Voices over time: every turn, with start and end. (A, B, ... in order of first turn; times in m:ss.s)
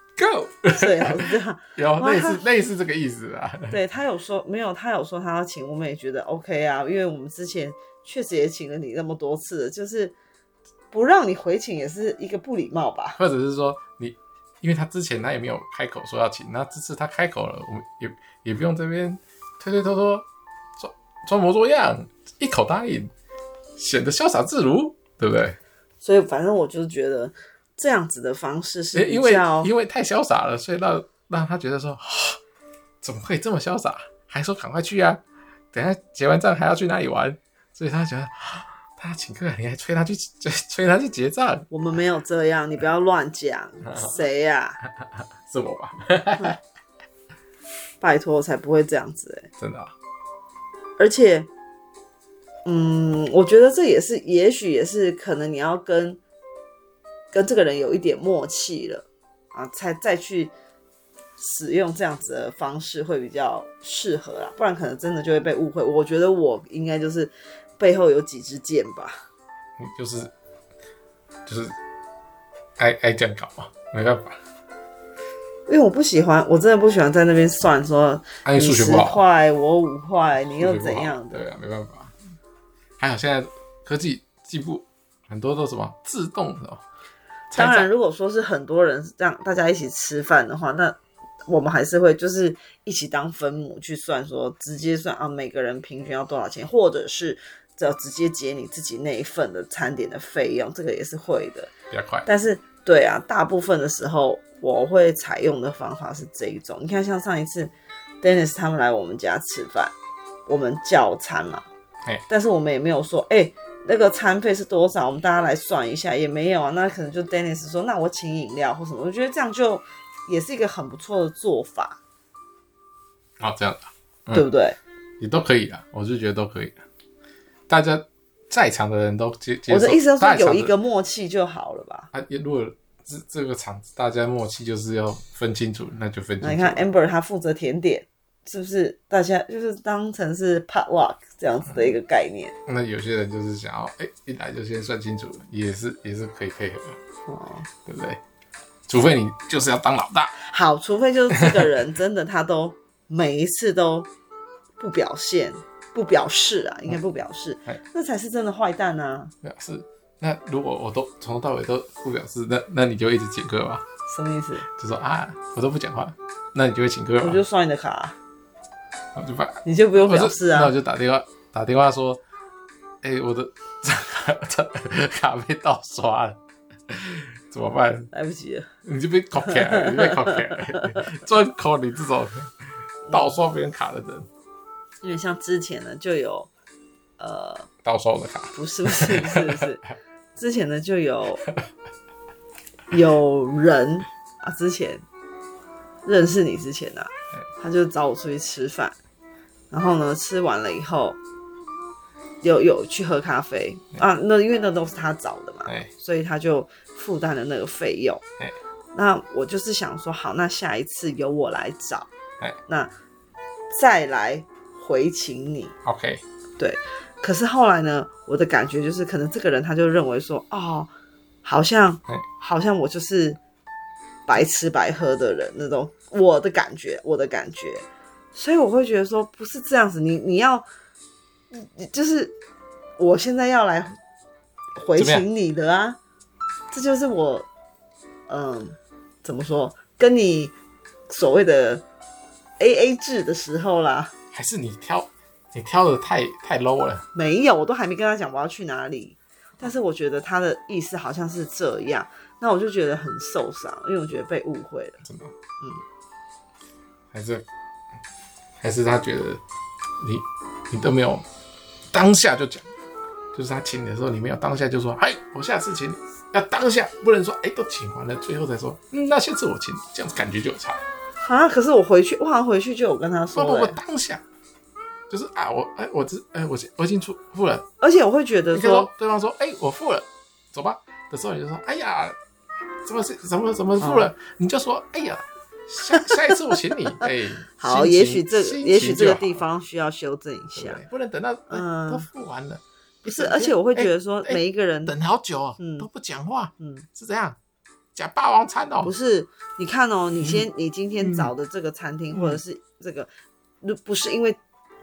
0:00.2-0:03.8 A
0:00.7-0:02.4 B
0:03.7-0:10.1 B
0:10.9-0:13.2 B
0:13.2-0:20.2 A
0:20.8-0:23.1 A
0:23.8-0:25.6 A
0:26.0-0:29.7 B
0:28.9-0:32.4 A
0:33.0-0:35.2 A
0:35.7-0:41.7 A
0:41.7-0:44.8 B
0:43.9-0:44.1 A
0:45.4-0:46.6 A
0:48.0-0:49.5 B
0:49.6-0:49.9 A
0:51.0-0:51.5 B
0:52.6-0:56.2 B
0:57.3-1:00.5 B
1:01.4-1:09.2 B
1:09.8-1:10.3 A
1:11.4-1:11.7 A
1:12.8-1:14.4 A
1:15.7-1:21.4 B
1:18.4-1:19.2 A
1:20.5-1:22.1 A
1:23.0-1:26.8 A
1:27.5-1:27.9 A
1:27.5-1:41.7 B
1:41.9-1:42.3 A
1:42.2-1:49.9 B
1:50.5-1:51.6 B
1:52.3-2:02.0 B
2:03.4-2:04.4 A
2:04.3-2:04.8 B
2:05.2-2:06.8 A
2:07.7-2:10.7 A
2:09.7-2:12.1 B
2:12.1-2:16.8 A
2:16.4-2:22.5 B
2:22.7-2:27.0 A
2:27.3-2:27.7 B
2:27.8-2:28.2 A
2:28.9-2:30.3 A
2:30.4-2:34.1 B
2:31.3-2:31.7 A
2:34.8-2:39.3 B
2:39.4-2:43.8 A
2:44.1-2:44.7 B
2:44.7-2:47.4 A
2:47.2-2:48.2 B
2:49.2-2:52.2 A
2:49.6-2:50.7 B
2:53.0-2:56.4 A
2:56.9-2:58.1 A
2:58.1-2:58.7 B
2:58.8-3:02.5 A
2:59.4-3:01.0 B
3:03.1-3:03.3 B
3:03.1-3:04.3 A
3:05.0-3:06.5 B
3:07.2-3:07.7 B
3:07.8-3:09.7 A
3:08.5-3:09.8 B
3:10.4-3:11.4 B
3:12.9-3:15.0 B
3:16.0-3:19.0 B
3:19.7-3:21.2 B
3:22.4-3:28.2 B
3:28.9-3:32.1 B
3:33.7-3:35.7 B
3:35.8-3:36.2 A
3:36.6-3:40.9 B
3:41.4-3:43.4 B
3:44.3-3:50.6 B
3:51.5-3:52.3 B
3:53.0-3:54.0 B
3:54.8-3:56.0 B
3:55.0-3:55.2 A
3:56.7-3:57.5 B
3:58.3-4:00.5 B
4:01.1-4:01.8 B
4:02.6-4:04.1 B
4:04.3-4:07.0 A
4:07.1-4:15.0 B
4:15.0-4:15.3 A
4:17.1-4:17.4 A
4:18.6-4:19.4 A
4:20.0-4:21.2 A
4:21.9-4:22.7 A
4:23.3-4:30.8 A
4:31.2-4:33.8 B
4:33.3-4:34.2 A
4:35.1-4:37.6 A
4:37.8-4:38.9 B
4:38.5-4:42.2 A
4:42.8-4:49.4 A
4:43.8-4:44.1 B
4:45.9-4:46.3 B
4:47.6-4:50.8 B
4:50.5-4:57.4 A
4:51.5-4:52.0 B
4:53.0-4:54.9 B
4:55.6-4:55.9 B
4:56.6-4:56.9 B
4:57.9-4:58.9 A
4:58.8-5:03.1 B
5:00.2-5:00.4 A
5:01.0-5:01.3 A
5:02.1-5:02.4 A
5:03.6-5:04.4 B